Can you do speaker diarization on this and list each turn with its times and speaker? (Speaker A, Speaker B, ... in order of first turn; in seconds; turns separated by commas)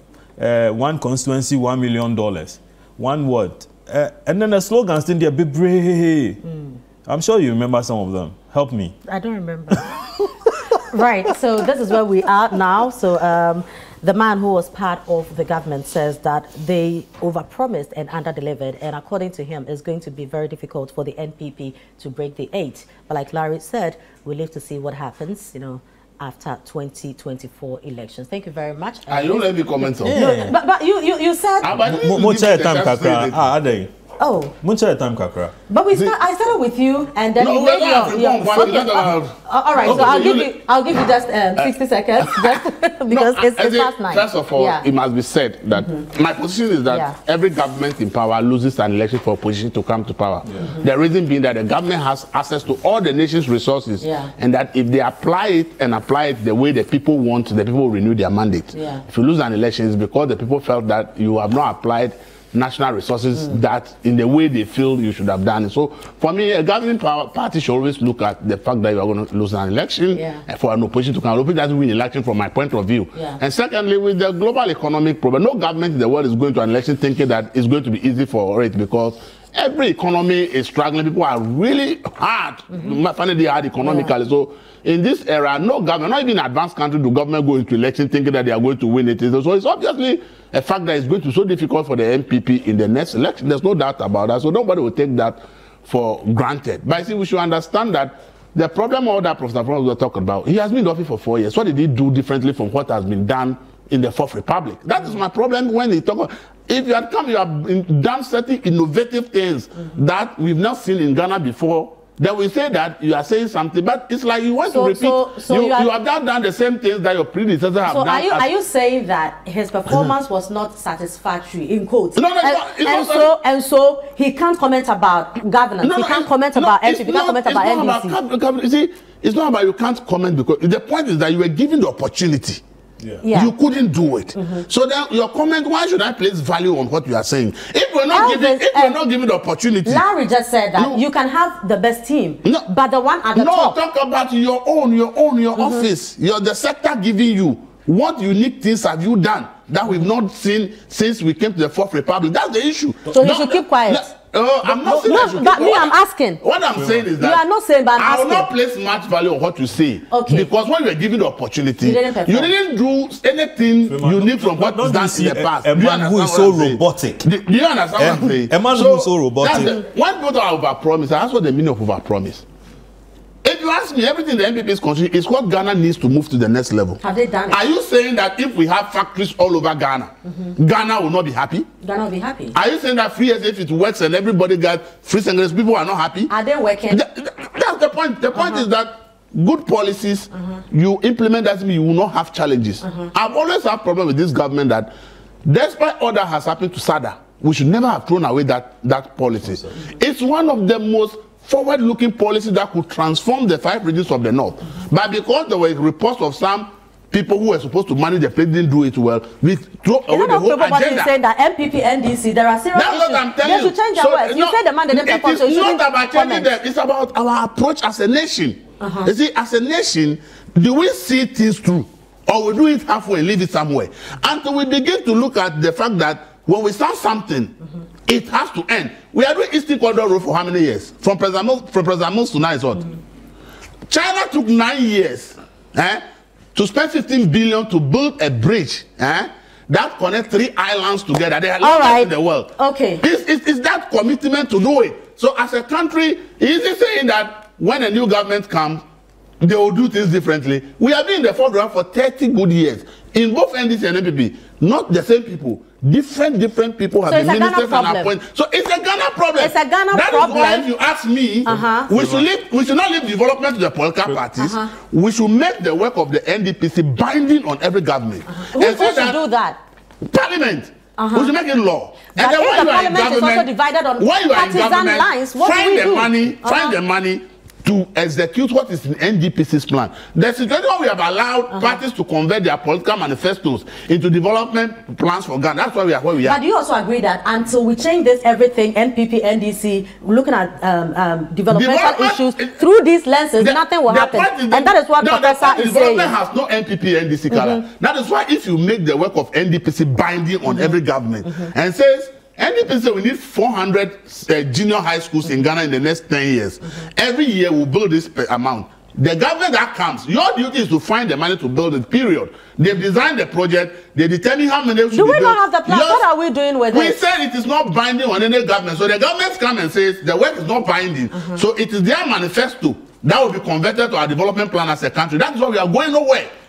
Speaker A: 0.4-6.4, Speaker B: 6.4-6.8, Speaker A: 7.0-8.9, Speaker B: 9.1-9.8, Speaker A: 9.7-11.3, Speaker B: 10.9-31.8, Speaker C: 29.1-30.2, Speaker A: 30.0-30.6, Speaker C: 31.6-33.5, Speaker A: 31.8-33.9, Speaker B: 34.2-34.5, Speaker A: 34.6-35.5, Speaker B: 35.7-44.9, Speaker C: 37.4-40.5, Speaker A: 39.9-40.2, Speaker C: 42.2-118.5, Speaker B: 45.7-46.0, Speaker B: 46.9-47.1, Speaker B: 54.0-54.3, Speaker B: 58.7-59.0, Speaker B: 70.1-70.4, Speaker B: 82.7-83.0, Speaker B: 83.8-84.1, Speaker B: 114.7-115.9, Speaker B: 117.9-128.2, Speaker C: 122.2-123.3, Speaker C: 125.8-132.6, Speaker B: 133.2-133.5, Speaker C: 133.3-140.0, Speaker B: 134.3-134.6, Speaker B: 138.1-139.0, Speaker B: 139.8-143.8, Speaker C: 140.8-141.0, Speaker C: 143.3-157.4, Speaker B: 145.6-145.9, Speaker B: 153.1-154.1, Speaker B: 154.6-156.4, Speaker A: 156.7-157.1, Speaker B: 157.2-158.5, Speaker C: 158.0-172.4, Speaker B: 160.1-160.5, Speaker B: 161.8-162.5, Speaker A: 163.9-167.3, Speaker A: 167.9-169.8, Speaker C: 173.4-181.7, Speaker B: 177.0-177.6, Speaker B: 180.3-180.5, Speaker B: 181.8-182.5, Speaker C: 182.5-186.3, Speaker B: 186.3-187.0, Speaker C: 186.9-194.9, Speaker B: 188.3-188.6, Speaker B: 192.8-193.1, Speaker C: 195.4-211.1, Speaker B: 210.1-216.5, Speaker C: 212.7-227.5, Speaker B: 218.8-219.1, Speaker C: 228.1-232.9, Speaker C: 233.9-236.0, Speaker C: 236.5-248.8, Speaker B: 241.6-243.0, Speaker C: 249.4-269.2, Speaker B: 257.1-258.1, Speaker B: 259.4-260.6, Speaker B: 261.4-261.9, Speaker A: 261.5-262.3, Speaker B: 264.4-264.7, Speaker B: 268.2-269.6, Speaker C: 270.0-286.4, Speaker B: 271.0-271.3, Speaker B: 272.1-276.8, Speaker B: 281.5-281.8, Speaker B: 286.2-296.1, Speaker C: 291.5-292.6, Speaker C: 293.4-316.0, Speaker B: 297.3-297.6, Speaker B: 300.5-301.5, Speaker B: 314.9-317.0, Speaker C: 316.7-326.3